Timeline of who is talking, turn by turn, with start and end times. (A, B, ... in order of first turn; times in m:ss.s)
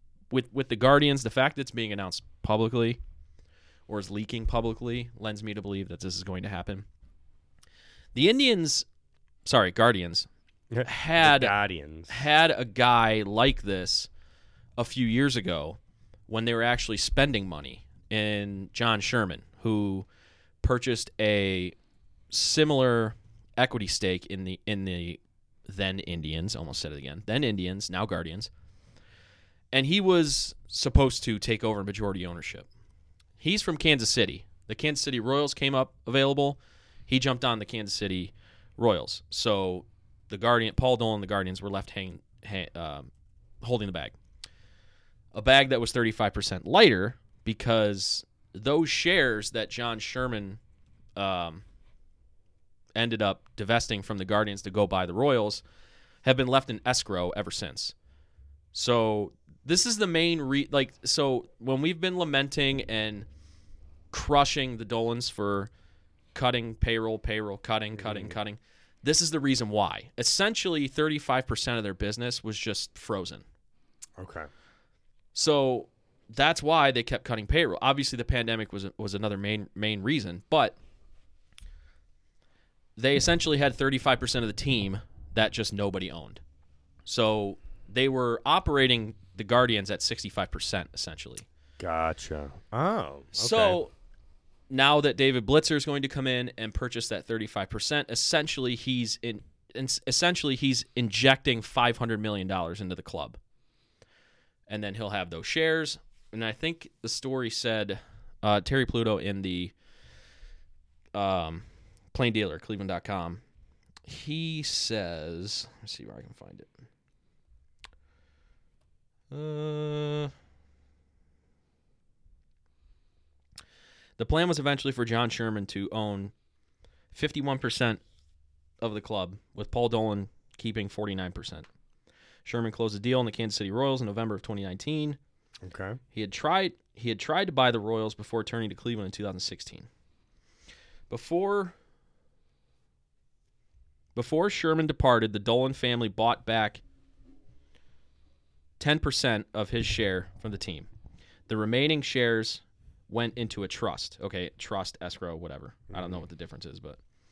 0:00.3-0:03.0 A
0:03.9-0:06.9 A
0:08.1-0:08.9 A
0:09.4-0:10.3 A
0:10.7-0:12.2 B
0:10.8-0:11.6 A
0:12.1-0:14.1 A
0:14.8-0:20.1 A
0:20.6-0:21.8 A
0:22.3-0:28.5 A
0:29.7-0:32.7 A
0:33.4-0:43.1 A
0:43.6-0:44.2 A
0:45.3-0:50.6 A
0:51.2-0:51.6 A
0:53.0-0:55.6 A
0:56.2-0:58.0 A
0:58.7-1:03.3 A
1:04.1-1:05.7 A
1:06.3-1:13.4 A
1:08.0-1:08.4 B
1:14.2-1:14.5 B
1:15.3-1:20.8 A
1:23.0-1:26.4 A
1:27.1-1:31.5 A
1:31.8-1:33.8 B
1:33.4-1:33.9 A
1:34.7-1:43.4 A
1:44.7-1:49.7 A
1:51.1-1:53.4 A
1:54.1-1:56.7 A
1:59.3-2:00.3 A
2:04.2-2:06.3 A
2:07.1-2:08.0 A
2:08.8-2:11.7 A
2:12.4-2:15.2 A
2:15.6-2:16.0 B
2:16.1-2:19.9 A
2:21.1-2:21.8 A
2:24.2-2:26.8 A
2:28.8-2:30.9 A
2:31.5-2:37.0 A
2:35.9-2:36.2 B